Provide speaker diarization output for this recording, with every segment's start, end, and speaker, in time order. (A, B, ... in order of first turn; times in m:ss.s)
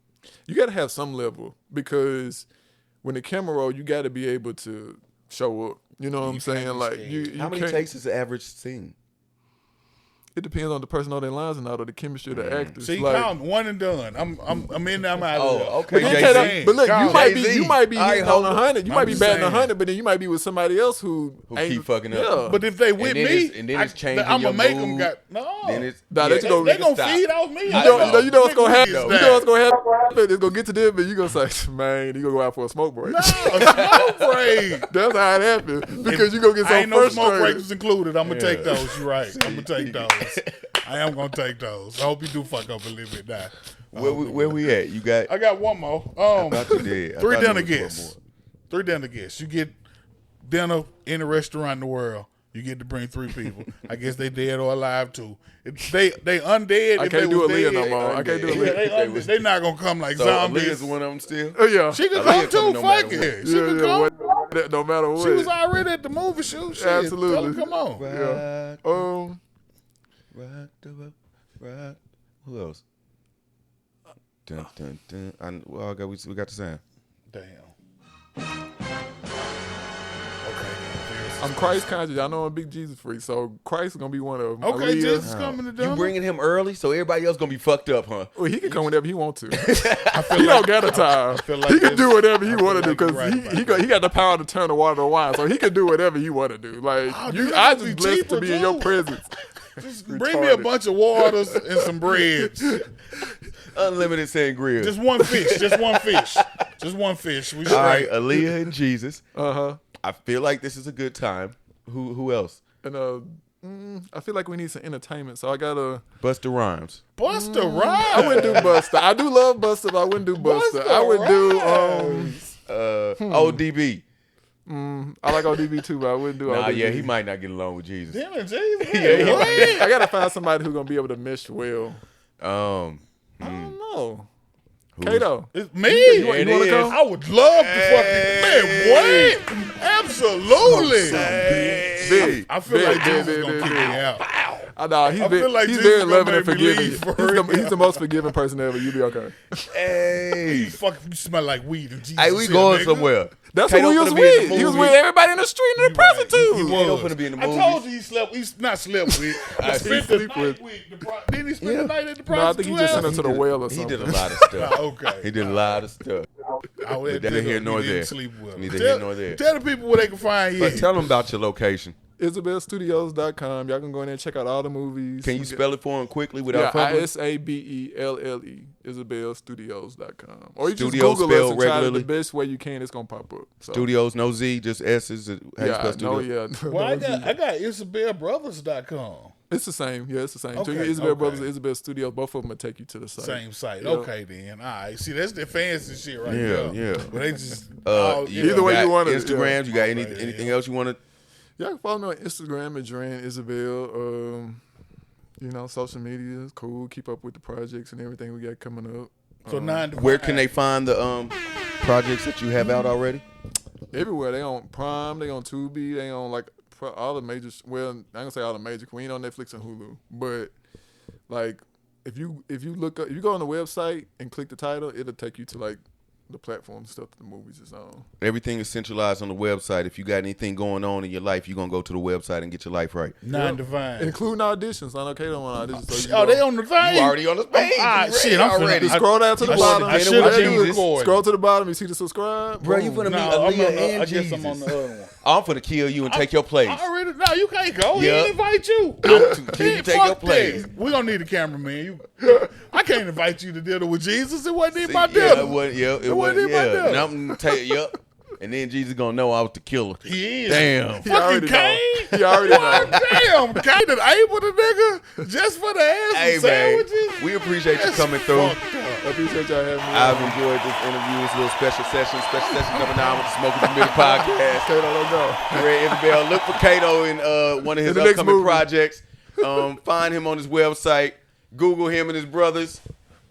0:00.4-0:02.5 A
0:03.0-0:07.8 A
0:06.2-0:07.3 B
0:07.3-0:08.9 C
0:10.3-0:13.3 A
0:12.3-0:12.8 C
0:12.8-0:17.4 B
0:15.3-0:18.6 C
0:15.9-0:22.6 A
0:18.8-0:19.7 B
0:21.5-0:22.4 C
0:22.4-0:29.5 B
0:23.0-0:29.3 C
0:26.1-0:26.8 A
0:27.7-0:34.0 A
0:33.0-0:34.9 B
0:33.6-0:34.1 C
0:34.9-0:37.6 A
0:36.0-0:44.6 B
0:38.2-0:40.7 C
0:43.9-0:45.3 C
0:45.3-0:48.1 B
0:46.3-0:48.2 C
0:48.7-0:49.8 B
0:50.4-1:00.9 B
0:57.0-0:58.8 A
0:57.8-0:59.3 C
1:00.1-1:01.6 C
1:01.5-1:02.0 A
1:01.9-1:04.1 B
1:02.1-1:03.3 C
1:03.4-1:05.5 A
1:05.1-1:08.1 B
1:06.7-1:09.4 A
1:08.0-1:08.8 C
1:10.3-1:12.8 C
1:14.5-1:16.8 C
1:17.3-1:17.7 B
1:20.4-1:22.0 B
1:21.4-1:25.3 A
1:24.6-1:26.1 B
1:25.2-1:28.8 C
1:28.4-1:29.7 A
1:29.6-1:30.4 C
1:30.1-1:33.9 B
1:30.3-1:40.7 A
1:37.1-1:39.0 B
1:39.8-1:42.9 B
1:42.2-1:43.2 A
1:43.7-1:46.5 C
1:44.8-1:48.2 B
1:47.6-1:49.2 C
1:49.3-1:49.8 A
1:50.0-1:52.6 C
1:52.8-1:56.0 A
1:56.2-1:57.0 C
1:57.2-1:58.7 B
1:57.3-2:02.4 A
1:58.2-1:58.8 C
2:00.4-2:02.4 B
2:02.6-2:04.0 C
2:03.2-2:03.6 A
2:04.6-2:07.1 A
2:06.4-2:08.2 C
2:08.1-2:09.9 B
2:08.8-2:10.0 C
2:09.0-2:12.0 A
2:12.4-2:13.8 C
2:13.4-2:14.3 A
2:14.9-2:15.3 C
2:15.0-2:17.0 A
2:15.5-2:24.2 B
2:16.1-2:17.0 C
2:17.5-2:19.4 C
2:20.6-2:24.0 A
2:20.6-2:22.5 C
2:24.2-2:24.7 C
2:24.7-2:29.4 A
2:25.1-2:28.0 B
2:29.7-2:30.8 C
2:30.3-2:33.1 B
2:32.2-2:35.0 C
2:33.5-2:36.8 A
2:35.8-2:43.2 B
2:36.6-2:37.8 C
2:39.5-2:40.1 C
2:39.5-2:40.6 A
2:41.6-2:41.9 C
2:42.2-2:44.5 A
2:42.9-2:46.3 C
2:44.5-2:45.8 B
2:46.8-2:50.9 B
2:47.0-2:49.4 C
2:50.6-2:52.0 C
2:52.2-2:55.6 A
2:55.2-2:57.1 C
2:56.5-3:03.9 A
3:00.7-3:02.1 C
3:03.7-3:06.3 C
3:05.6-3:07.3 A
3:06.7-3:09.3 B
3:09.5-3:14.1 A
3:10.5-3:11.5 B
3:13.2-3:18.8 B
3:16.2-3:17.2 C
3:17.8-3:21.0 C
3:18.4-3:19.6 A
3:19.5-3:20.6 B
3:21.6-3:24.6 A
3:25.4-3:29.9 A
3:29.5-3:30.5 B
3:29.9-3:33.2 C
3:33.9-3:40.5 A
3:41.3-3:48.1 A
3:48.2-3:53.2 C
3:53.2-3:54.2 B
3:53.3-3:56.4 A
3:55.8-4:01.2 B
3:56.8-4:00.8 C
3:58.8-4:03.1 A
4:02.6-4:06.8 C
4:03.0-4:05.1 B
4:06.1-4:17.1 B
4:07.9-4:08.3 C
4:09.0-4:10.7 C
4:14.7-4:21.1 C
4:20.0-4:29.1 B
4:21.0-4:23.0 A
4:22.5-4:23.1 C
4:26.1-4:28.6 C
4:29.0-4:30.4 A
4:29.9-4:34.7 C
4:33.8-4:36.4 A
4:35.5-4:42.8 C
4:37.8-4:38.7 A